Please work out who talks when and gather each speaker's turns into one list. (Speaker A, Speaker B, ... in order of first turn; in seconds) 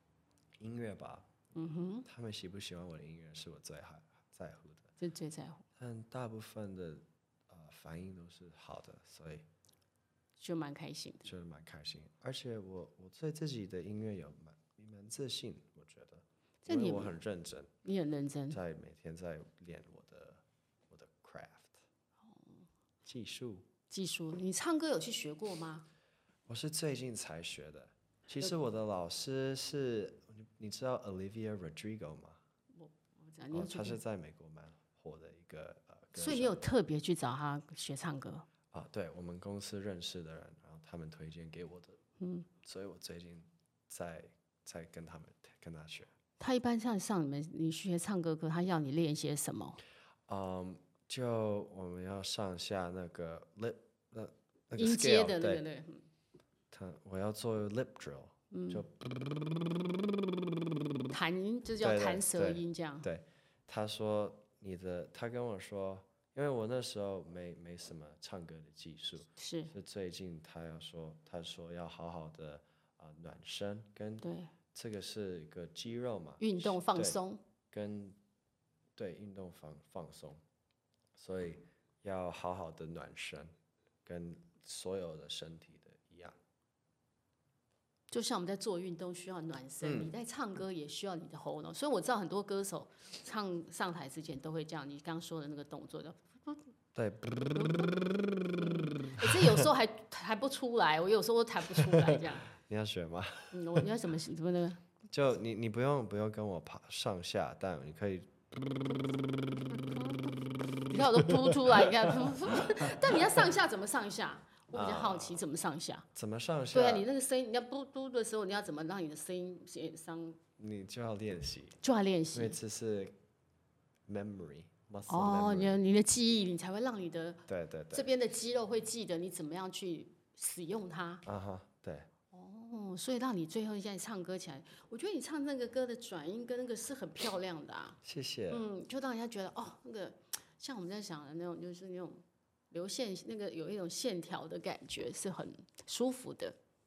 Speaker A: 0.6-1.3, 2.0-4.9, 5.8-9.4, 11.2-17.7, 18.5-21.8, 23.0-23.6, 26.5-32.4, 33.5-36.6, 38.7-42.0, 42.6-46.1, 50.3-55.6, 56.7-60.9, 61.8-77.2, 77.7-78.2, 79.0-80.4, 81.2-83.5, 84.0-86.3, 89.8-90.1, 96.9-99.7, 101.7-103.9, 105.1-109.0, 110.9-113.4, 114.7-115.4, 116.1-117.1, 120.6-121.8, 122.3-123.1, 124.1-125.8, 127.5-128.1, 131.2-132.1, 138.0-138.6
Speaker B: 1.5-2.0, 5.0-5.6, 10.4-11.3, 16.6-17.1, 17.8-18.6, 22.3-22.6, 23.9-25.9, 32.7-34.0, 36.1-38.5, 42.2-42.5, 46.4-49.8, 54.8-56.0, 58.5-58.8, 61.1-63.1, 69.4-69.7, 74.2-74.5, 76.4-77.4, 88.1-96.6, 97.5-97.9, 98.5-102.5, 103.5-104.8, 110.9-116.0, 116.7-120.4, 121.8-122.6, 125.1-131.2, 132.3-138.0, 138.5-146.6